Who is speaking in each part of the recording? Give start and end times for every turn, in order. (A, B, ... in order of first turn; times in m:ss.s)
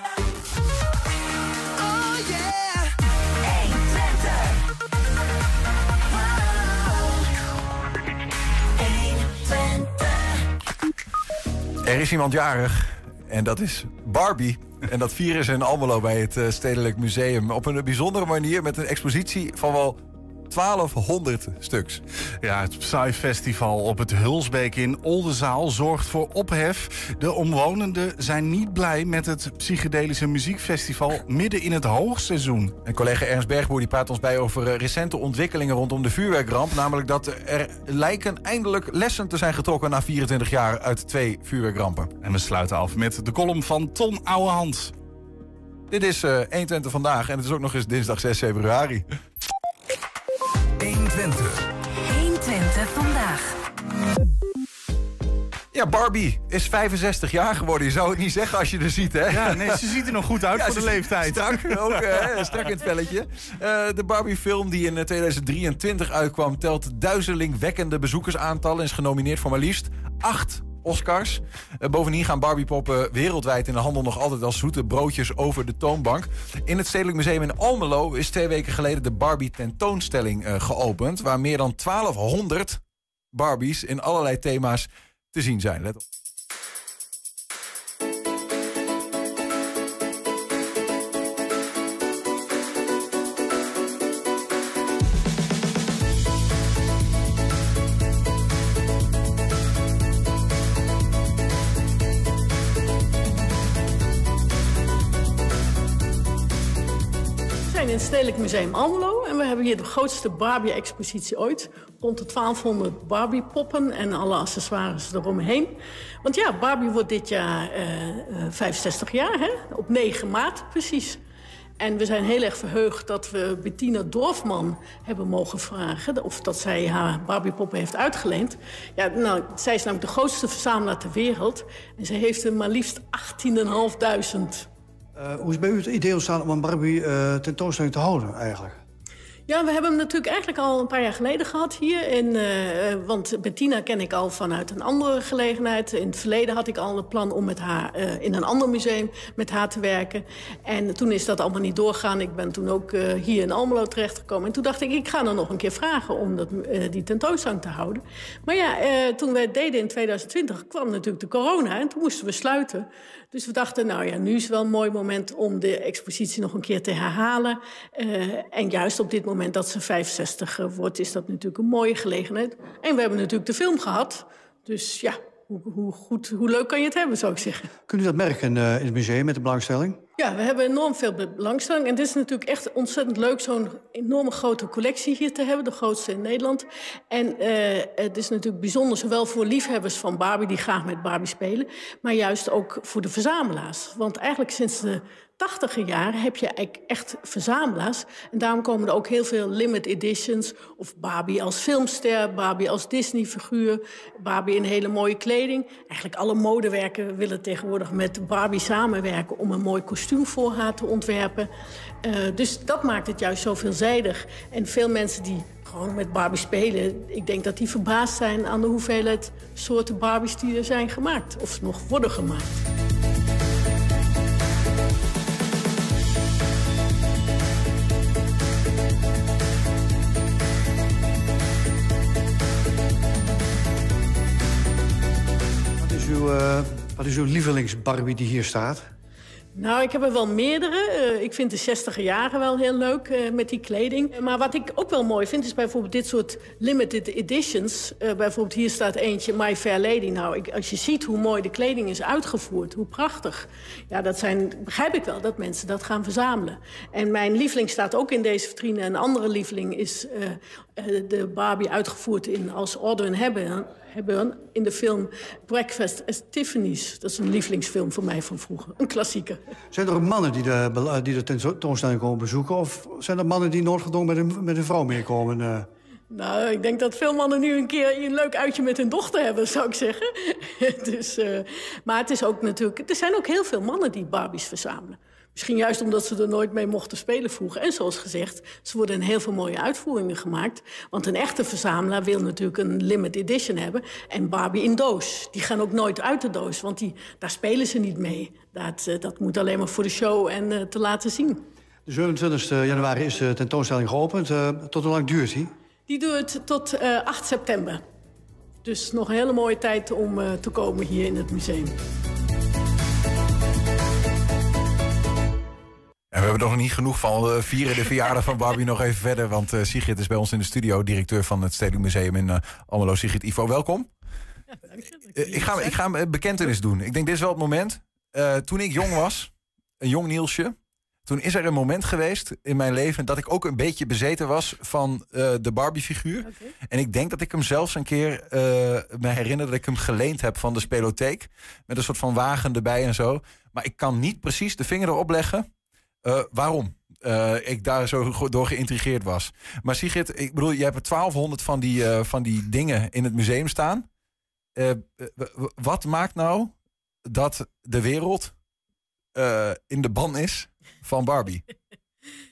0:09.2-0:09.9 A
0:11.8-0:22.0 B
0:22.4-0:32.8 C
0:32.8-0:42.1 B
0:42.2-0:44.9 C
0:45.9-0:49.0 B
0:50.8-0:51.6 C
0:52.0-0:53.5 A
0:55.7-1:22.8 B
0:59.3-1:02.4 C
1:23.3-1:26.0 B
1:47.7-2:01.2 D
2:01.8-2:14.7 D
2:15.2-2:18.8 E
2:19.5-2:57.7 D
2:57.9-3:00.0 E
3:00.2-3:31.5 D
3:32.0-3:42.5 D
3:55.8-3:58.9 E
3:59.6-4:29.4 D
4:29.7-4:35.7 E
4:36.1-5:01.4 D
5:01.9-5:05.5 E
5:05.9-5:07.8 D
5:08.6-5:11.8 D
5:16.1-5:23.9 B
5:24.5-5:25.8 D
5:25.1-5:45.5 B
5:36.2-5:36.5 D
5:46.0-5:53.9 B
5:54.6-5:58.3 B
5:59.2-6:01.4 B